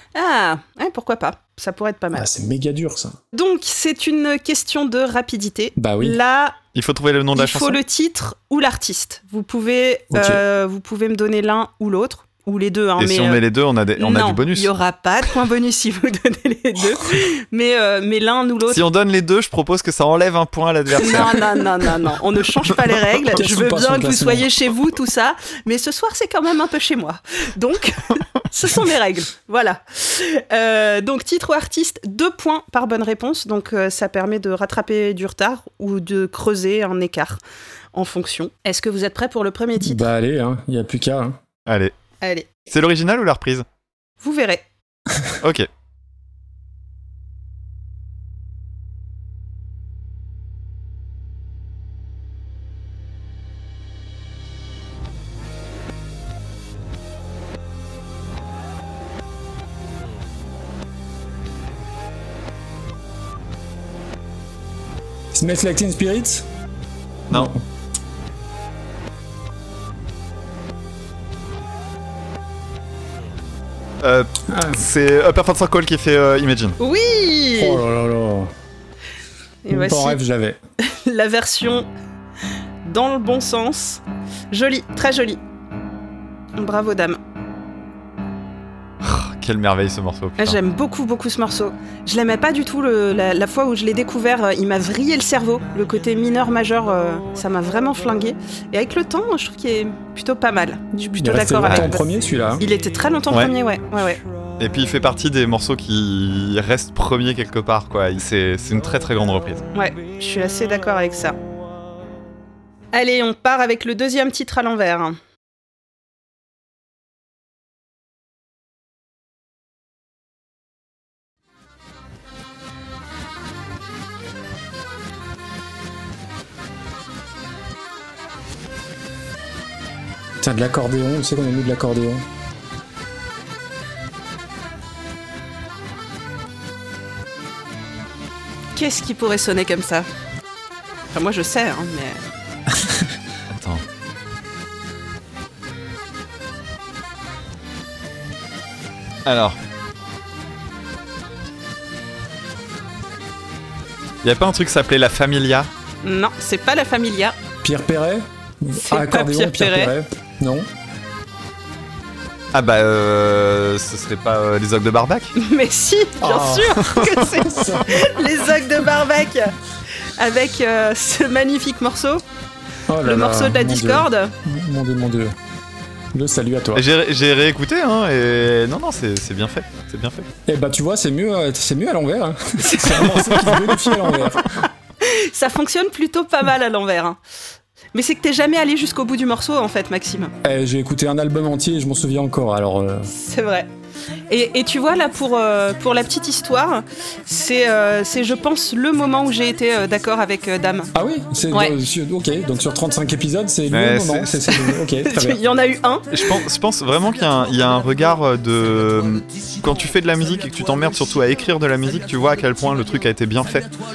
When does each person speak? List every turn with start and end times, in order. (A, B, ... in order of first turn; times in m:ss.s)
0:00.2-0:02.3 A
0:02.1-0:03.2 B
0:03.3-0:06.6 A
0:05.8-0:06.2 B
0:06.8-0:07.8 C
0:07.4-0:13.4 A
0:10.1-0:10.4 B
0:13.0-0:14.7 C
0:14.0-0:18.8 A
0:18.7-0:21.6 C
0:21.0-0:37.4 A
0:23.3-0:24.5 B
0:37.9-0:40.1 A
0:39.8-0:41.4 B
0:41.7-0:41.9 C
0:42.2-0:42.5 A
0:42.7-0:43.6 C
0:44.2-0:44.6 A
0:45.4-0:45.7 C
1:05.3-1:06.5 B
1:07.3-1:07.6 B
1:14.0-1:16.8 C
1:14.5-1:14.8 B
1:16.8-1:17.8 A
1:17.6-1:18.5 B
1:19.6-1:20.2 A
1:19.7-1:20.6 B
1:20.8-1:21.9 A
1:22.8-1:25.4 A
1:26.6-1:27.2 A
1:29.0-1:30.6 C
1:30.4-1:42.0 A
1:41.0-1:42.6 B
1:42.6-1:44.2 A
1:44.6-1:49.7 C
1:49.7-1:51.4 A
1:52.9-1:55.2 A
2:10.4-2:12.2 B
2:18.8-2:20.1 A
2:21.1-2:22.2 A
2:23.5-2:23.8 C
2:29.3-2:29.6 C
2:34.2-2:35.7 C
2:36.0-2:37.4 A
2:37.6-2:40.7 B
2:38.8-2:39.9 A
2:42.5-2:45.4 C
2:45.4-2:52.2 A
2:46.2-2:46.8 B
2:47.5-2:48.1 B
2:52.9-2:55.4 B
2:53.0-2:54.3 A
2:56.1-2:56.9 B
2:56.7-3:00.3 C
3:00.5-3:04.6 B
3:02.6-3:03.5 A
3:05.0-3:07.2 A
3:07.9-3:10.3 A
3:10.4-3:13.1 B
3:13.1-3:13.7 A
3:14.3-3:20.9 A
3:20.9-3:25.4 B
3:21.5-3:21.8 A
3:23.7-3:24.4 C
3:24.6-3:26.4 A
3:26.1-3:33.7 C